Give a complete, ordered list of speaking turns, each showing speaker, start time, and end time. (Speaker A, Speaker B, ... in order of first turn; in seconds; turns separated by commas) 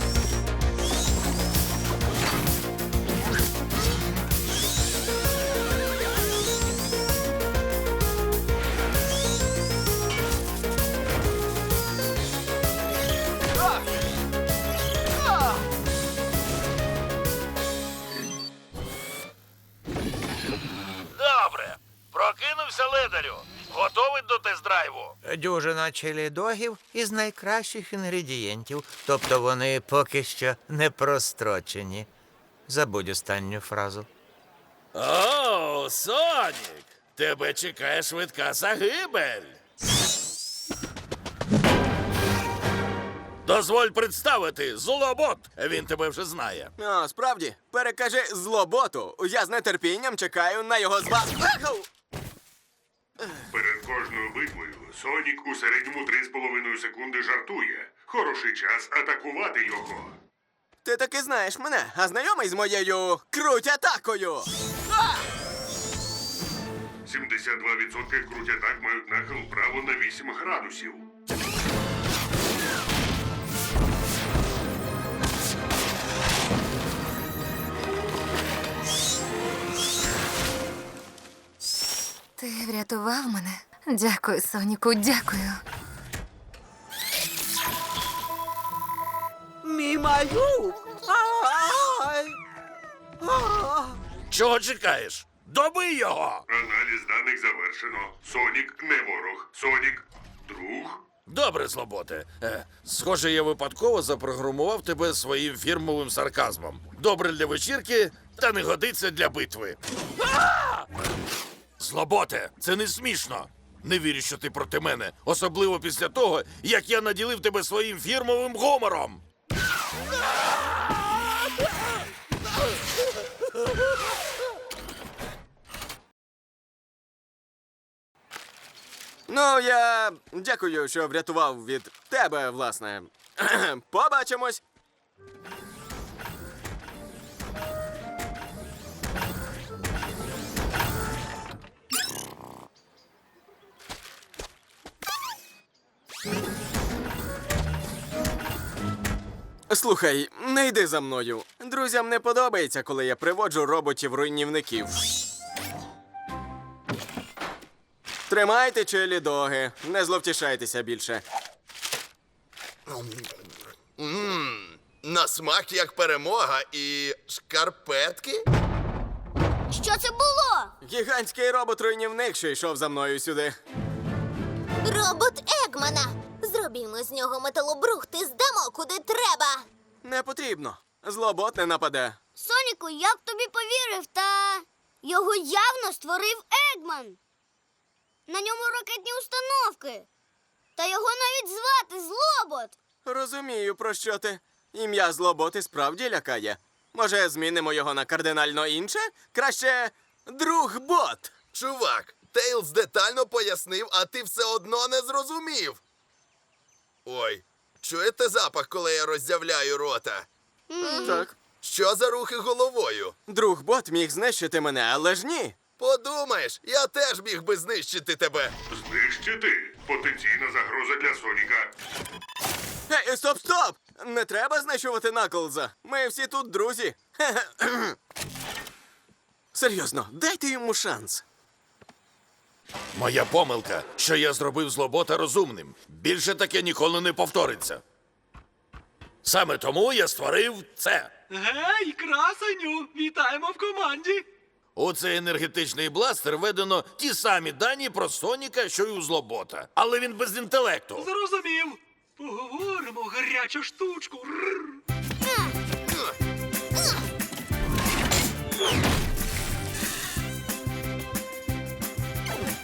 Speaker A: 21.1-25.2, Speaker B: 25.2-32.1, Speaker B: 32.7-34.1, Speaker A: 34.9-39.6, Speaker A: 43.5-46.7, Speaker C: 46.8-51.9, Speaker D: 53.5-60.2, Speaker C: 60.8-64.5, Speaker D: 67.0-71.1, Speaker A: 94.3-96.4, Speaker D: 96.5-101.0, Speaker A: 101.3-109.8, Speaker A: 110.4-110.7, Speaker A: 111.8-119.2, Speaker C: 129.3-134.6, Speaker C: 149.7-155.0, Speaker C: 158.3-161.2, Speaker E: 162.9-163.3, Speaker E: 164.0-168.4, Speaker F: 169.7-170.7, Speaker C: 170.8-173.6, Speaker G: 174.8-179.7, Speaker C: 180.0-182.2, Speaker F: 182.4-187.2, Speaker F: 188.3-190.1, Speaker F: 190.8-192.8, Speaker C: 193.1-201.4, Speaker E: 201.5-205.8, Speaker E: 207.1-210.3, Speaker F: 210.7-211.2, Speaker C: 210.8-211.4, Speaker E: 211.6-213.2, Speaker C: 213.3-215.6, Speaker E: 215.8-218.5, Speaker D: 218.7-221.7, Speaker C: 222.9-228.0, Speaker C: 229.5-231.2, Speaker A: 232.9-237.8, Speaker A: 239.2-241.1, Speaker H: 241.3-244.3, Speaker A: 244.8-251.1, Speaker H: 251.0-254.8